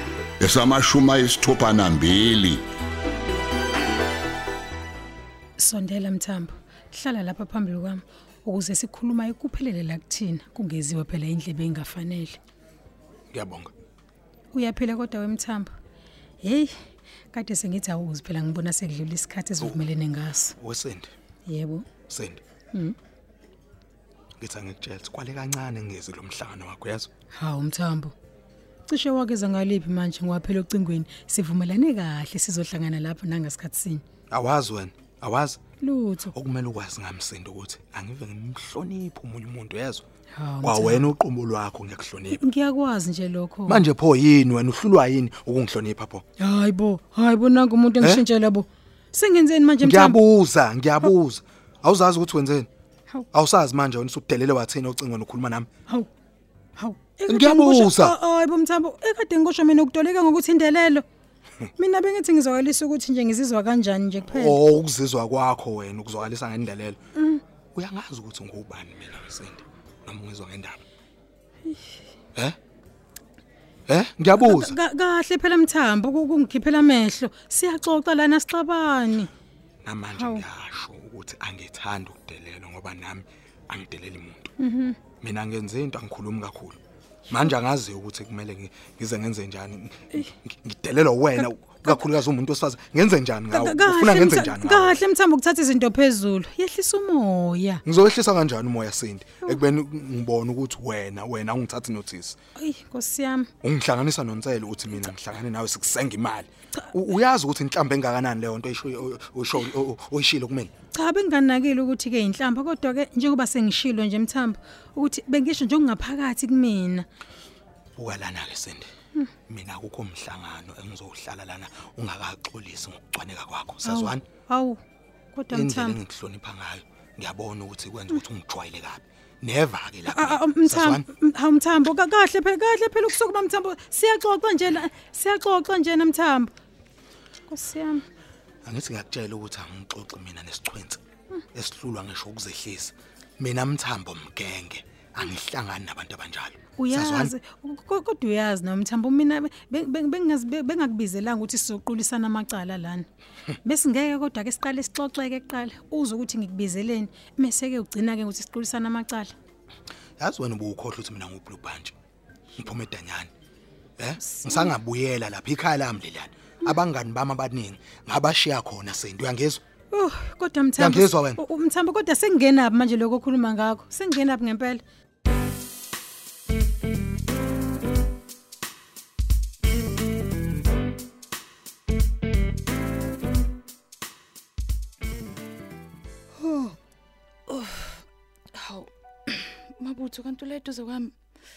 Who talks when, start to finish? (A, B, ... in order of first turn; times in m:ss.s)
0:00.4-0:02.6 A
0:05.6-0:12.4 B
0:13.3-0:13.7 C
0:14.5-0:15.7 B
0:16.4-0:16.7 B
0:17.3-0:20.5 B
0:19.6-0:19.8 C
0:20.6-0:21.1 C
0:21.5-0:21.9 B
0:22.1-0:22.4 C
0:24.4-0:27.1 C
0:27.4-0:28.1 B
0:28.9-0:34.0 B
0:34.3-0:35.6 C
0:35.8-0:36.3 B
0:36.3-0:40.0 C
0:40.4-0:41.1 B
0:40.6-0:42.4 C
0:42.3-0:43.8 B
0:43.7-0:46.2 C
0:46.4-0:50.2 B
0:49.8-0:52.7 C
0:53.3-0:55.7 C
0:56.8-1:01.0 B
0:57.3-0:58.2 C
1:01.8-1:04.6 B
1:04.3-1:07.0 C
1:07.2-1:07.4 B
1:07.7-1:10.8 C
1:11.7-1:11.9 B
1:13.9-1:14.7 C
1:14.4-1:19.3 B
1:19.8-1:24.5 C
1:20.1-1:20.4 B
1:24.6-1:25.0 B
1:25.2-1:26.8 C
1:27.3-1:35.0 C
1:31.4-1:32.0 B
1:33.5-1:37.8 B
1:37.8-1:42.4 C
1:42.6-1:43.5 B
1:43.6-1:50.7 C
1:50.9-1:57.0 B
1:58.0-1:58.9 C
1:59.5-2:04.2 C
2:03.8-2:04.8 B
2:05.3-2:06.0 B
2:05.5-2:11.0 C
2:10.1-2:16.5 B
2:17.5-2:18.0 B
2:18.6-2:21.0 C
2:21.5-2:27.3 C
2:26.8-2:33.1 B
2:33.6-2:39.3 B
2:40.2-2:41.9 C
2:42.6-2:43.3 C
2:44.0-2:49.6 C
2:44.2-2:44.7 B
2:49.9-2:54.8 B
2:50.8-2:51.4 C
3:06.4-3:06.7 D
3:07.5-3:08.0 D
3:08.5-3:11.1 D